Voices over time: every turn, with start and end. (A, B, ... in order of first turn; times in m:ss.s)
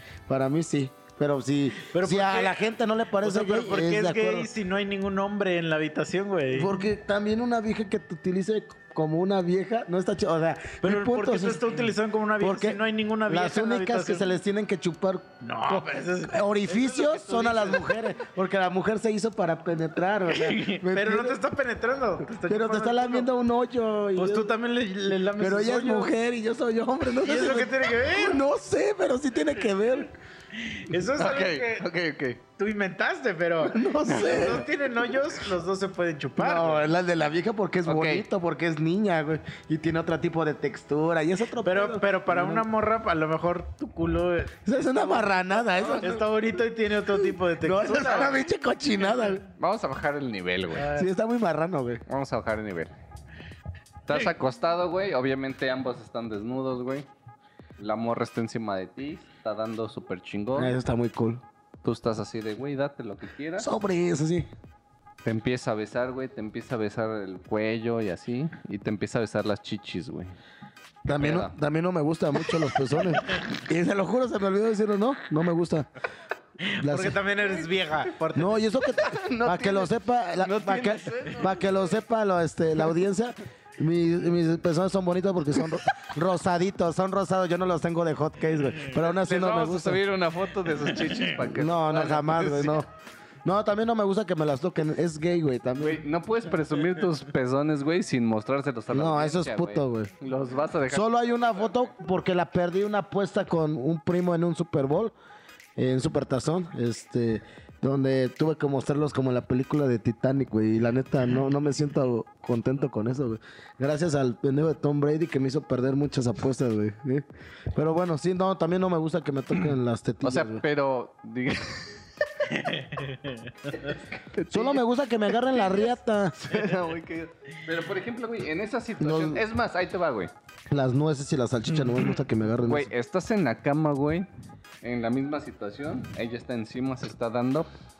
0:00.3-0:04.5 A
0:01.8-0:02.6 B
0:03.2-0:06.7 B
0:06.5-0:11.9 A
0:10.8-0:14.2 B
0:12.4-0:21.4 A
0:15.4-0:17.9 B
0:20.3-0:23.3 B
0:22.5-0:24.5 A
0:24.2-0:26.1 B
0:25.1-0:30.1 A
0:27.2-0:28.4 B
0:30.6-0:31.8 B
0:31.2-0:32.4 C
0:32.6-0:36.8 B
0:33.7-0:34.6 A
0:34.0-0:34.6 C
0:36.4-0:42.6 A
0:37.8-0:38.2 C
0:41.6-0:44.6 B
0:44.6-0:46.2 A
0:45.9-0:48.4 B
0:47.6-0:49.4 A
0:49.6-0:50.9 C
0:50.7-0:51.1 B
0:50.9-0:52.0 A
0:52.1-0:52.9 C
0:54.1-0:57.1 C
0:57.8-1:00.7 C
1:00.5-1:01.4 A
1:01.8-1:03.7 C
1:03.6-1:04.5 A
1:05.2-1:10.4 C
1:11.0-1:15.9 A
1:11.2-1:11.5 C
1:16.6-1:18.7 B
1:16.8-1:17.2 A
1:17.4-1:17.7 C
1:18.3-1:30.0 A
1:19.0-1:21.9 C
1:28.9-1:32.8 C
1:31.4-1:32.9 A
1:33.4-1:36.0 A
1:35.8-1:41.9 C
1:38.9-1:40.1 A
1:40.9-1:45.1 A
1:45.8-2:00.6 A
2:00.2-2:02.0 C
2:02.5-2:03.9 B
2:03.8-2:10.3 C
2:04.5-2:06.4 A
2:09.0-2:09.4 A
2:10.7-2:12.9 A
2:12.6-2:14.3 C
2:14.8-2:17.7 C